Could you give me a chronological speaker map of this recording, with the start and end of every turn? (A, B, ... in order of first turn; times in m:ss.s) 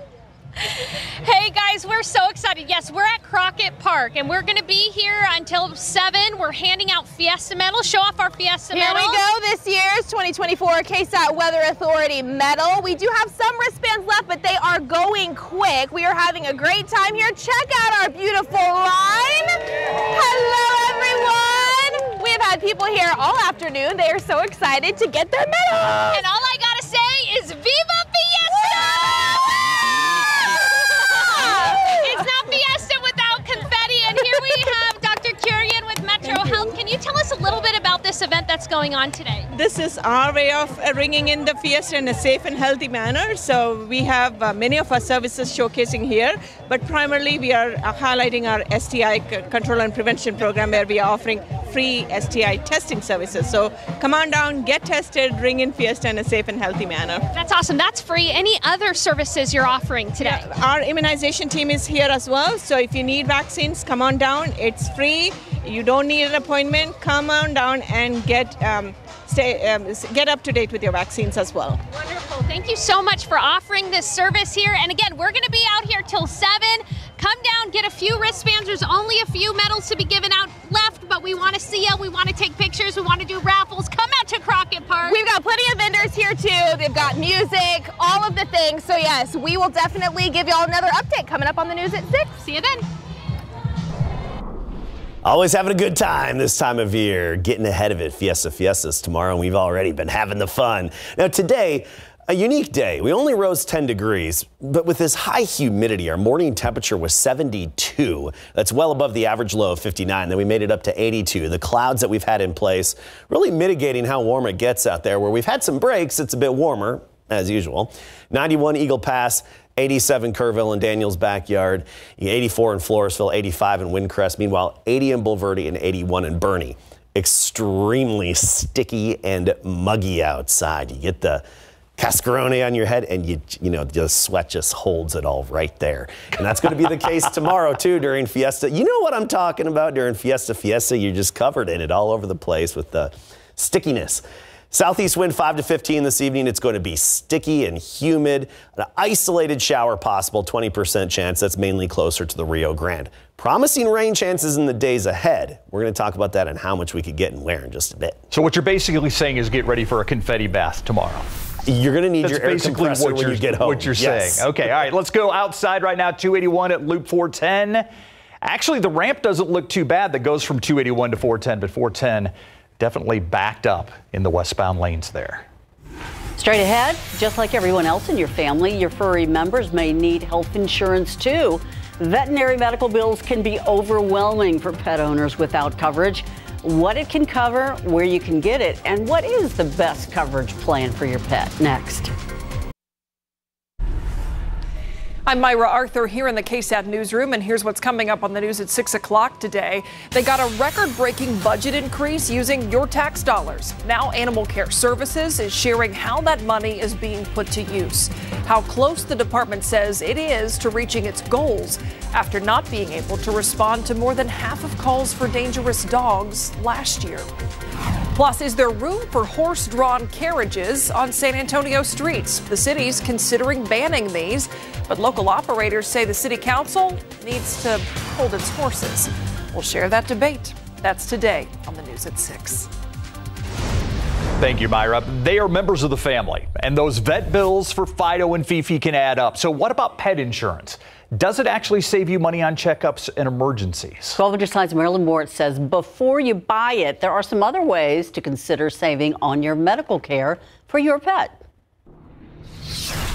0:01.2-0:09.2 A
0:08.7-0:26.2 B
0:26.1-0:29.8 A
0:28.8-0:29.3 B
0:31.1-0:32.1 B
0:31.8-0:39.5 A
0:39.5-0:57.3 C
0:57.3-1:00.5 A
1:00.2-1:11.8 C
1:12.0-1:25.2 A
1:25.1-1:32.3 B
1:32.4-1:32.8 A
1:35.2-2:11.4 D
2:12.0-2:38.2 D
2:38.3-2:41.3 E
2:41.7-2:44.6 D
2:42.2-2:47.9 E
2:48.4-2:55.4 E
2:56.4-3:12.1 F
3:15.3-3:37.3 G
3:38.2-3:52.7 G
3:54.4-4:04.2 E
4:04.2-4:11.4 F